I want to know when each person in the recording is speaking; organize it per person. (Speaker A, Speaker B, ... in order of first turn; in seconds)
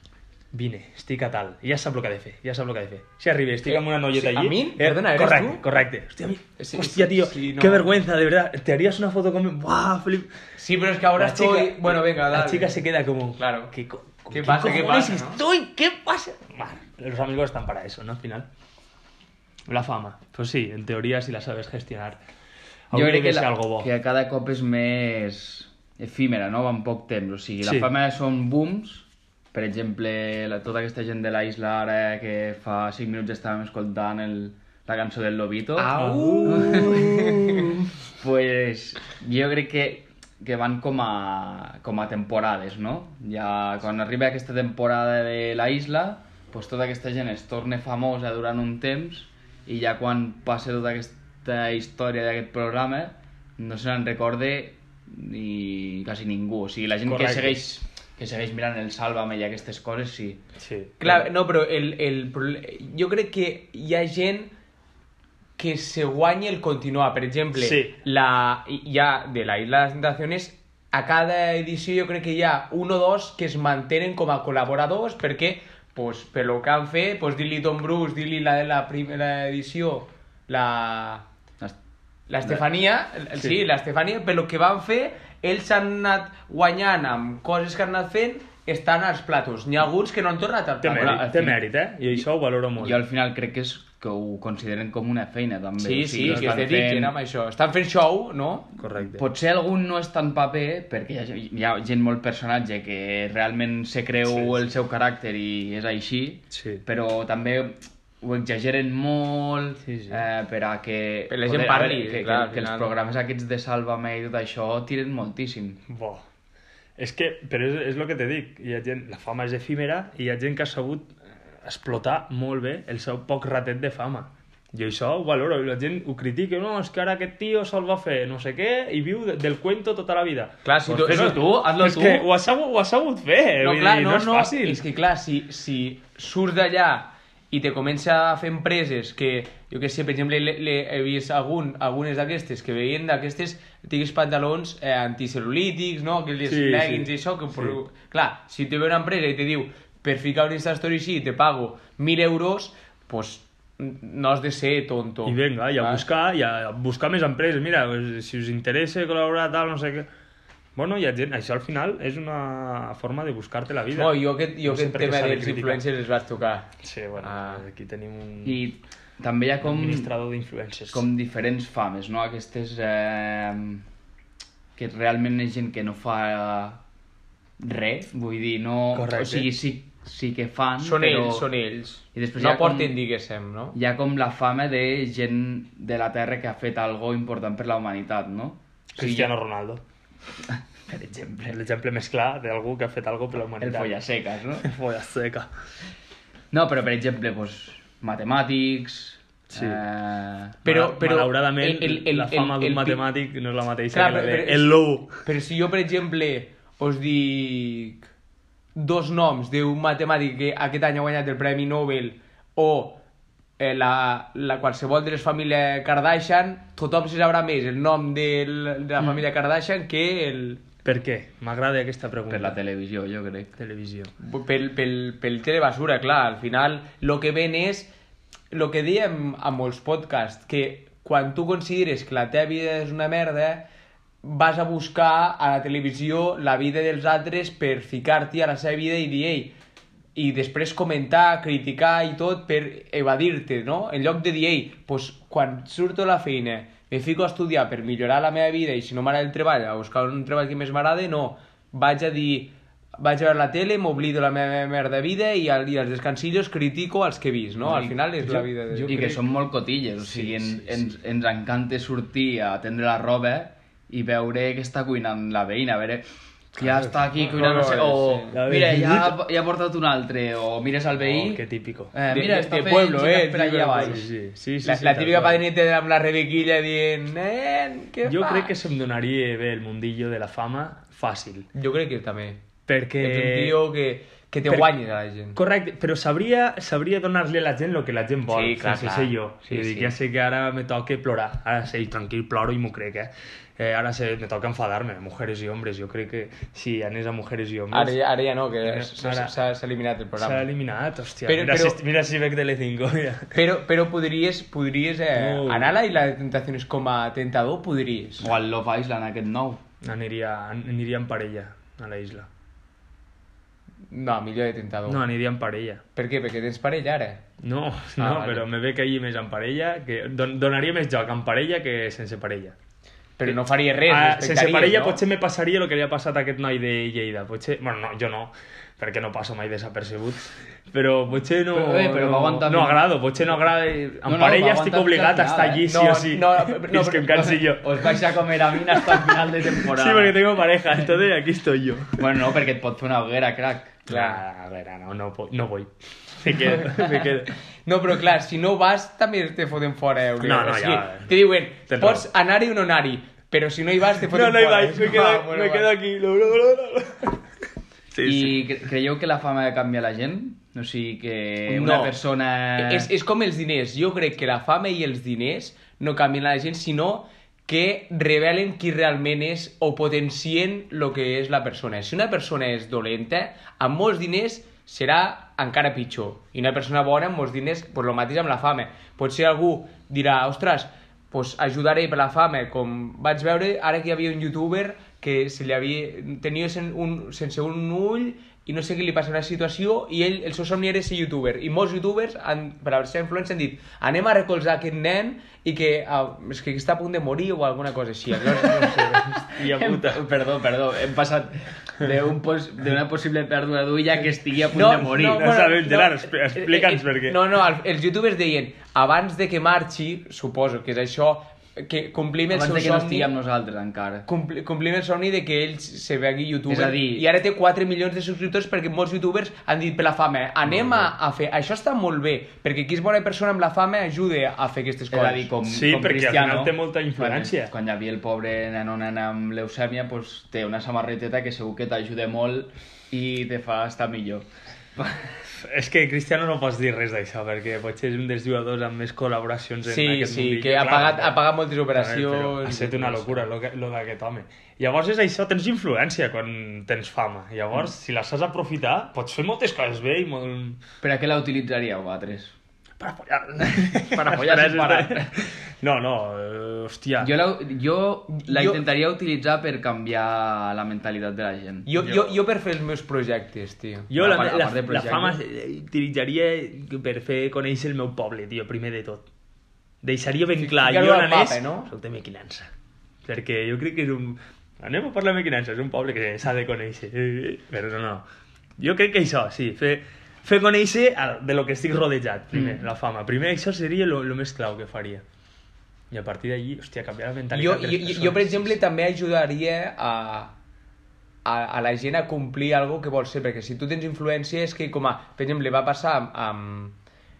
Speaker A: 0.5-10.3, 11.2-18.5, 19.7-22.2, 22.9-23.9, 35.9-37.7, 57.0-57.6, 60.6-61.2, 67.6-67.9, 90.8-93.0, 96.2-96.8, 98.8-99.2, 104.3-104.6, 106.5-106.8, 109.8-110.2, 115.9-116.2, 117.0-134.8, 146.4-147.8, 155.2-160.1, 160.8-165.8, 166.8-168.6, 169.6-171.1, 178.9-179.5, 188.9-189.8, 191.5-193.9, 194.6-195.5, 199.5-199.8, 200.6-205.2, 220.8-222.6, 223.6-224.1, 266.6-267.0, 268.3-269.2, 271.0-271.9, 273.8-275.4, 278.0-281.5, 282.7-283.6, 285.3-298.0, 298.6-299.3, 300.2-303.3, 305.1-305.7, 309.8-312.3, 314.9-315.8, 317.4-322.6, 323.2-338.0, 338.7-342.1, 343.9-347.3, 350.2-352.1, 354.0-357.2, 357.9-358.4, 361.5-361.9, 398.3-400.1, 405.0-407.4, 425.4-427.5, 435.4-450.6, 452.8-457.1, 461.8-462.1, 463.9-469.0, 469.8-472.5, 473.0-478.0, 478.6-485.0, 485.9-488.6
Speaker B: 3.6-5.7, 6.6-8.0, 10.6-12.7, 13.4-13.7, 14.3-15.4, 35.8-37.6, 61.0-64.5, 65.6-81.3, 82.3-91.2, 95.8-98.7, 111.3-112.9, 130.6-131.4, 133.6-156.0, 163.9-166.7, 167.2-167.6, 180.8-183.8, 200.6-203.0, 203.9-208.1, 208.8-213.0, 213.6-220.6, 224.2-227.9, 228.5-233.7, 234.2-239.5, 240.1-259.2, 267.2-268.4, 272.1-274.0, 274.6-278.5, 281.5-282.4, 283.0-285.4, 288.3-289.9, 297.7-300.5, 301.2-301.8, 303.3-308.3, 313.9-315.0, 315.9-317.2, 318.0-318.4, 323.2-325.0, 335.7-337.4, 343.9-344.2, 347.6-355.7, 362.6-398.9, 404.5-413.1, 414.1-425.3, 439.6-443.3, 458.1-458.6, 461.6-463.9, 470.4-471.7, 487.3-490.4, 491.2-496.8
Speaker C: 22.9-60.4, 90.9-91.6, 92.8-97.1, 99.0-115.8, 130.9-132.3, 168.4-170.1, 170.9-173.8, 174.8-176.8, 177.6-181.5, 182.1-183.0, 183.7-189.3, 190.5-191.6, 193.6-194.7, 196.5-200.6, 222.3-223.5, 257.6-274.1, 308.2-309.6, 331.5-333.4, 334.0-335.7, 337.2-340.2, 342.0-343.8, 358.0-362.9, 398.9-405.3, 412.3-414.1, 416.5-417.0, 424.9-435.1, 450.8-452.3, 453.4-455.1, 457.0-461.7, 463.9-465.2